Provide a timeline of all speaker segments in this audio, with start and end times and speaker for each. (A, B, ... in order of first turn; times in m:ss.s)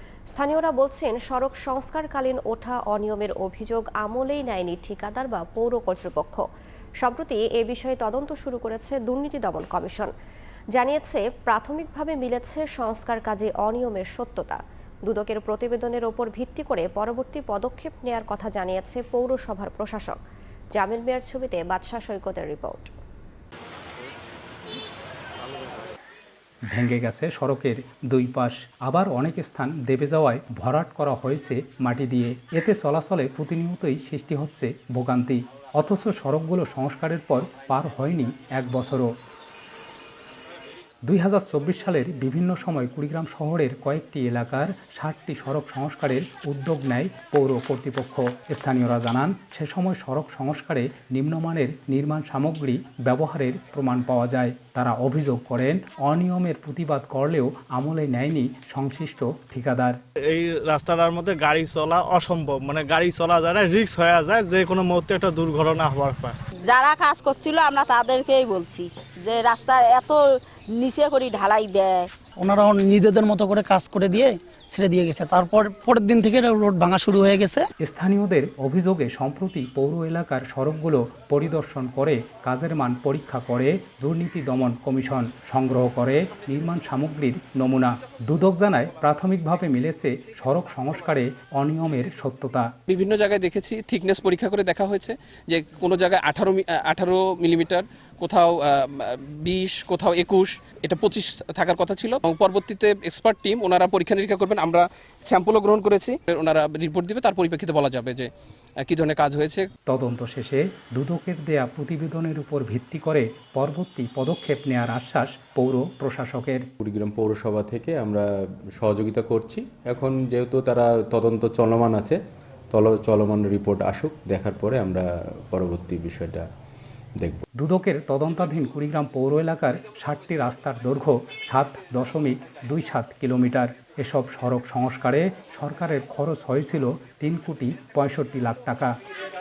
0:00.3-0:06.4 A
0:07.0-0:10.1 A
0:10.7-0:20.2 A
0:20.7-0:23.0 A
0:26.7-0:39.1 B
0:41.1-1:00.0 B
1:00.3-1:06.4 C
1:06.6-1:10.2 D
1:10.8-1:12.1 D
1:12.4-1:17.6 E
1:17.8-1:32.7 B
1:32.9-1:48.3 F
1:48.8-1:49.7 F
1:49.9-1:56.7 B
1:56.8-2:02.2 G
2:02.7-2:06.5 G
2:07.2-2:07.4 G
2:07.6-2:18.9 B